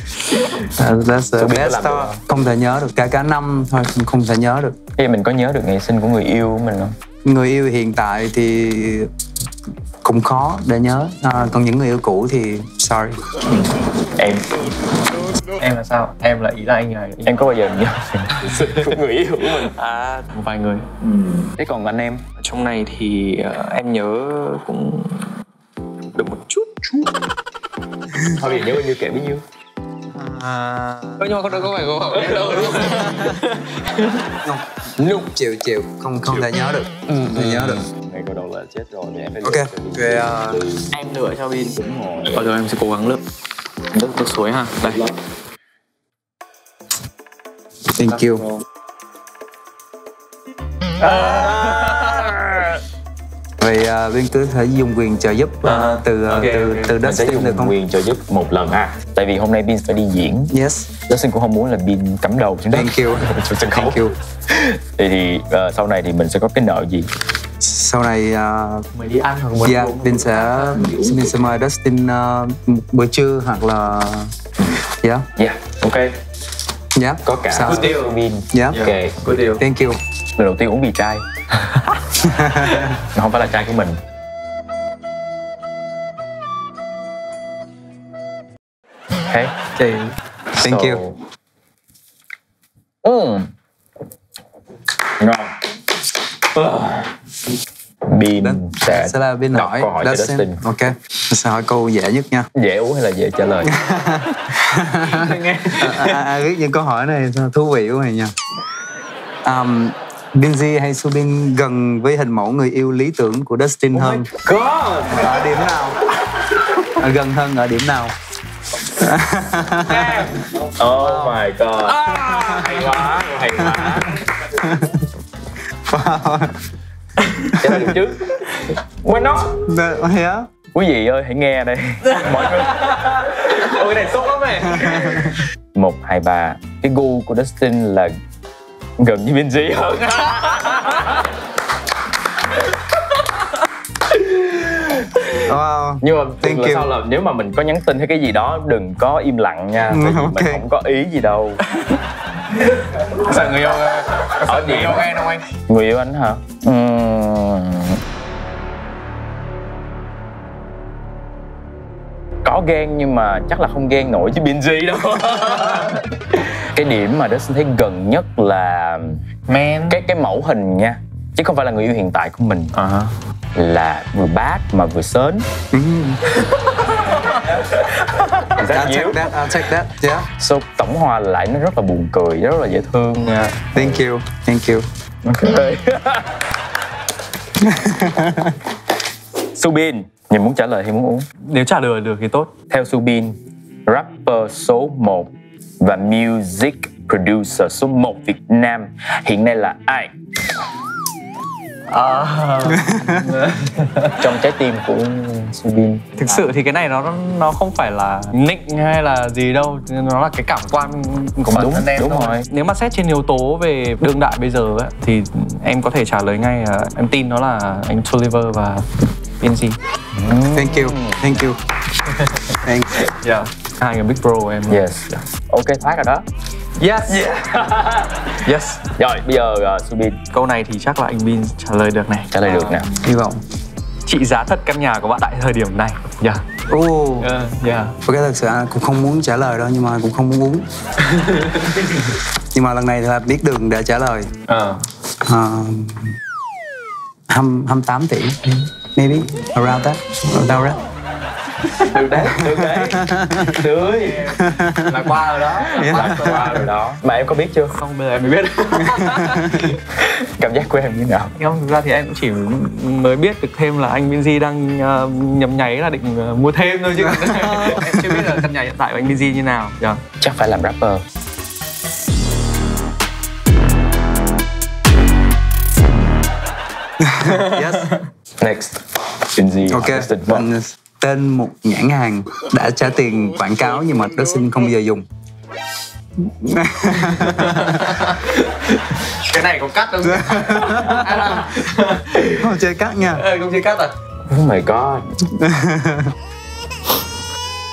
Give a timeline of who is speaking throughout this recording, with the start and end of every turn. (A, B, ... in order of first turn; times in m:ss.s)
0:00.6-0:04.8 A
0:01.4-0:02.2 B
0:05.0-0:07.0 B
0:07.2-0:09.1 A
0:10.0-0:13.2 A
0:14.2-0:14.4 B
0:15.5-0:17.5 C
0:17.2-0:19.7 B
0:18.4-0:18.8 C
0:19.6-0:20.9 C
0:21.0-0:22.2 B
0:22.4-0:25.4 C
0:26.1-0:27.1 C
0:28.3-0:29.4 B
0:30.2-0:34.3 C
0:31.3-0:33.0 B
0:32.4-0:33.3 A
0:34.4-0:37.8 A
0:37.3-0:42.5 B
0:39.4-0:40.6 A
0:42.3-0:43.2 C
0:43.9-0:45.1 C
0:44.8-0:45.1 B
0:47.9-0:48.4 A
0:51.0-0:52.3 C
0:51.1-0:52.8 B
0:53.6-0:57.8 A
0:55.6-0:57.0 C
0:57.0-1:00.5 B
1:00.5-1:00.9 A
1:01.1-1:07.1 B
1:02.7-1:04.1 A
1:07.6-1:08.9 A
1:08.9-1:11.3 C
1:09.6-1:14.3 A
1:15.0-1:15.3 A
1:15.4-1:16.2 B
1:16.9-1:18.0 A
1:17.2-1:19.2 B
1:17.6-1:18.1 C
1:18.5-1:18.8 A
1:18.7-1:19.6 C
1:19.6-1:20.0 A
1:20.4-1:22.0 B
1:22.2-1:23.0 A
1:22.8-1:24.0 B
1:29.3-1:29.5 B
1:29.7-1:30.1 C
1:30.6-1:31.2 B
1:30.6-1:31.0 A
1:33.0-1:33.5 B
1:35.2-1:35.5 B
1:36.5-1:37.1 B
1:38.0-1:40.6 B
1:38.4-1:42.5 A
1:42.5-1:43.8 B
1:43.6-1:48.3 A
1:45.1-1:46.1 C
1:45.2-1:46.0 B
1:49.4-1:54.3 A
1:53.9-1:55.6 B
1:55.1-1:56.1 A
1:57.0-1:58.1 A
1:58.9-2:00.4 A
1:59.9-2:04.2 B
2:02.3-2:02.8 A
2:03.6-2:05.1 A
2:05.9-2:06.6 A
2:07.2-2:07.6 C
2:07.6-2:09.5 B
2:07.6-2:07.9 A
2:09.6-2:10.5 A
2:10.7-2:13.6 B
2:12.0-2:15.4 C
2:14.8-2:15.4 A
2:15.7-2:18.1 B
2:19.0-2:21.3 B
2:24.1-2:25.3 B
2:25.4-2:26.9 A
2:26.0-2:31.6 B
2:29.9-2:30.6 A
2:32.9-2:35.5 C
2:34.3-2:38.0 B
2:42.4-2:49.2 B
2:49.5-2:50.0 C
2:49.9-2:52.7 B
2:52.7-2:53.1 C
2:53.5-2:55.5 B
2:55.7-2:56.2 A
2:56.9-2:57.4 C
2:57.4-2:57.9 B
2:58.0-2:58.5 C
2:58.4-2:59.4 B
2:58.7-3:00.3 A
3:00.4-3:03.9 B
3:03.7-3:04.9 A
3:05.2-3:06.4 B
3:07.6-3:08.6 A
3:09.6-3:11.3 B
3:11.4-3:12.5 C
3:12.7-3:20.1 B
3:21.9-3:24.2 C
3:22.7-3:23.3 A
3:24.2-3:26.5 B
3:26.2-3:39.8 C
3:31.5-3:32.4 B
3:40.1-3:41.4 B
3:40.5-3:41.6 A
3:42.1-3:44.9 C
3:42.6-3:43.0 A
3:44.7-3:46.2 B
3:46.8-3:47.4 C
3:47.1-3:48.4 B
3:48.4-3:48.8 C
3:49.0-3:50.2 B
3:50.3-3:52.9 C
3:52.3-3:52.9 B
3:53.0-3:53.4 A
3:54.0-3:56.4 C
3:56.7-3:57.3 A
3:57.2-3:58.0 C
3:58.0-4:00.7 A
4:01.1-4:01.8 C
4:02.5-4:04.3 A
4:04.5-4:04.8 C
4:05.2-4:06.2 A
4:07.3-4:10.8 A
4:11.8-4:14.3 B
4:12.4-4:13.6 A
4:13.8-4:16.7 C
4:14.4-4:15.1 A
4:15.6-4:17.8 B
4:15.8-4:16.4 A
4:17.8-4:20.1 C
4:18.8-4:19.7 A
4:20.2-4:21.3 B
4:21.4-4:30.0 C
4:27.6-4:28.2 A
4:30.2-4:31.0 B
4:37.0-4:37.9 A
4:37.2-4:38.0 C
4:38.4-4:40.5 B
4:39.7-4:45.0 A
4:46.2-4:48.0 A
4:47.0-4:52.4 C
4:50.0-4:51.4 A
4:52.4-4:53.2 A
4:53.0-4:53.9 C
4:54.3-4:55.1 B
4:55.3-4:56.1 A